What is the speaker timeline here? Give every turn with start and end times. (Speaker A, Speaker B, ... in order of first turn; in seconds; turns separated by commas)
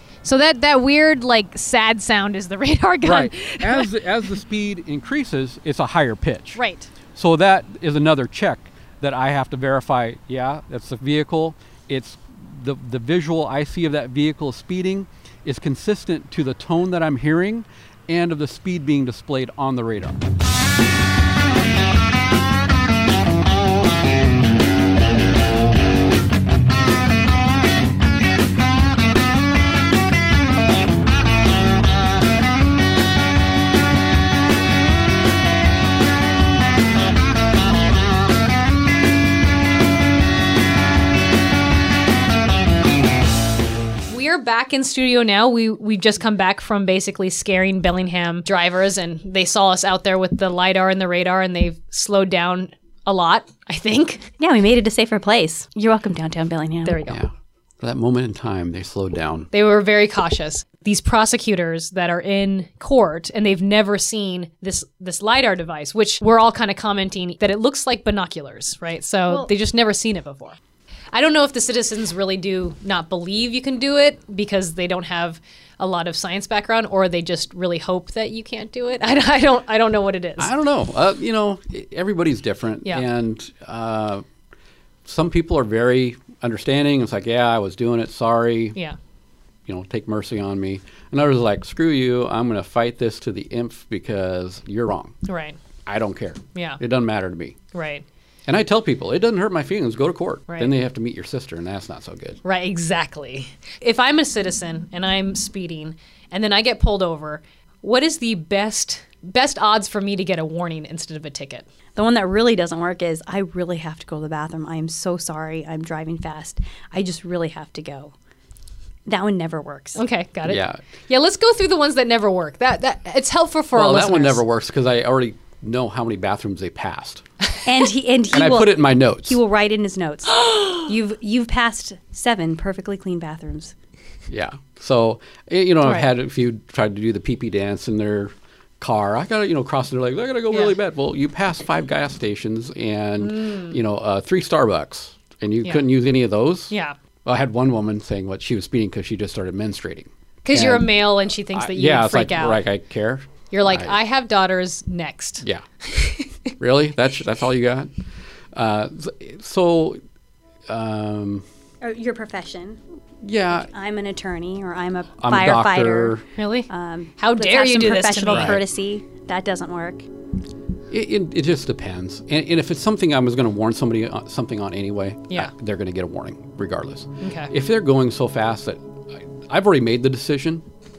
Speaker A: 0.2-3.9, Speaker B: 3.0-6.6, Speaker A: 6.5-6.9, Speaker B: 7.2-20.2, Speaker A: 44.1-54.3, Speaker C: 54.4-57.1, Speaker A: 56.9-57.2, Speaker B: 57.1-59.5, Speaker A: 59.5-70.6, Speaker A: 71.1-80.5, Speaker B: 80.4-84.2, Speaker B: 85.0-88.8, Speaker B: 89.7-95.2, Speaker A: 95.2-95.6, Speaker B: 95.9-97.6, Speaker A: 96.5-96.8, Speaker A: 97.7-98.0, Speaker B: 98.5-102.4, Speaker A: 102.4-111.7, Speaker C: 112.0-118.1, Speaker C: 119.1-120.0, Speaker A: 120.0-124.4, Speaker B: 120.5-120.8, Speaker B: 123.7-127.2, Speaker C: 127.7-133.7, Speaker B: 128.3-129.4, Speaker A: 130.5-130.8, Speaker B: 134.3-146.7, Speaker A: 143.2-143.8, Speaker A: 146.7-147.0, Speaker B: 147.2-151.0, Speaker A: 150.4-152.6, Speaker B: 151.5-154.0, Speaker A: 153.5-156.3, Speaker B: 156.6-157.9, Speaker B: 158.5-160.0, Speaker B: 160.7-161.4, Speaker C: 161.8-162.8, Speaker B: 163.2-163.7, Speaker C: 163.6-170.1, Speaker B: 165.2-166.2, Speaker A: 166.3-168.6, Speaker B: 168.3-168.6, Speaker B: 170.9-180.7, Speaker A: 177.2-177.5